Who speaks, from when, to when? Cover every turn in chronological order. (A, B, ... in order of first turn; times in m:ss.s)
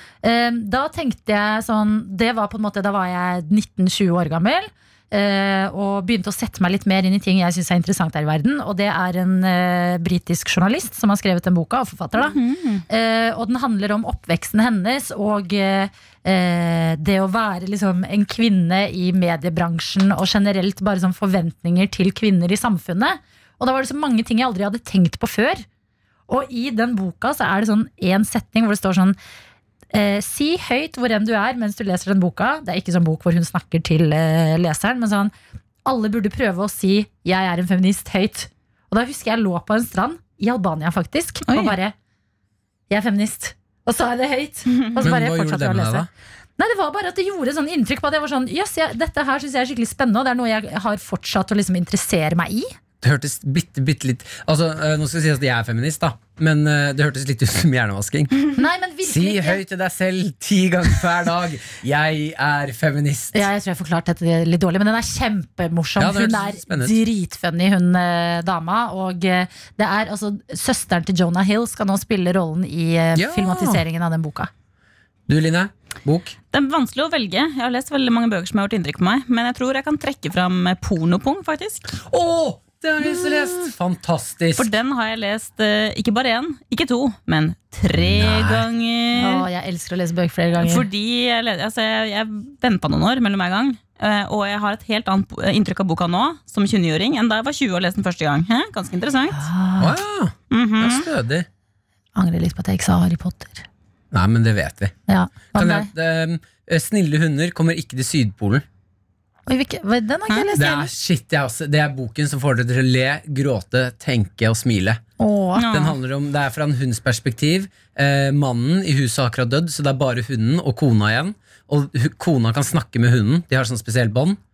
0:00.2-0:12.4 A
0:12.2-0:12.8 B
0:12.9-0:25.6 A
0:26.3-0:29.2 A
0:29.9-0:35.3 A
0:35.8-0:42.0 A
0:41.5-0:41.8 B
0:42.9-0:52.7 A
0:45.0-0:46.1 C
0:53.0-0:58.3 C
0:58.6-0:59.6 A
0:59.0-1:03.5 C
1:03.3-1:14.5 A
1:06.0-1:07.0 C
1:13.2-1:13.8 C
1:15.3-1:16.4 C
1:16.5-1:21.9 B
1:22.0-1:24.7 C
1:24.6-1:29.5 B
1:27.9-1:28.6 C
1:29.2-1:30.9 A
1:30.6-1:39.4 B
1:39.3-1:40.0 A
1:39.8-1:41.5 C
1:40.5-1:41.1 B
1:42.2-1:43.6 A
1:44.1-1:44.9 C
1:45.1-1:45.9 A
1:45.5-1:48.6 C
1:49.5-1:50.9 A
1:50.5-1:55.0 C
1:55.2-1:55.7 A
1:55.6-1:56.0 B
1:55.7-2:04.4 C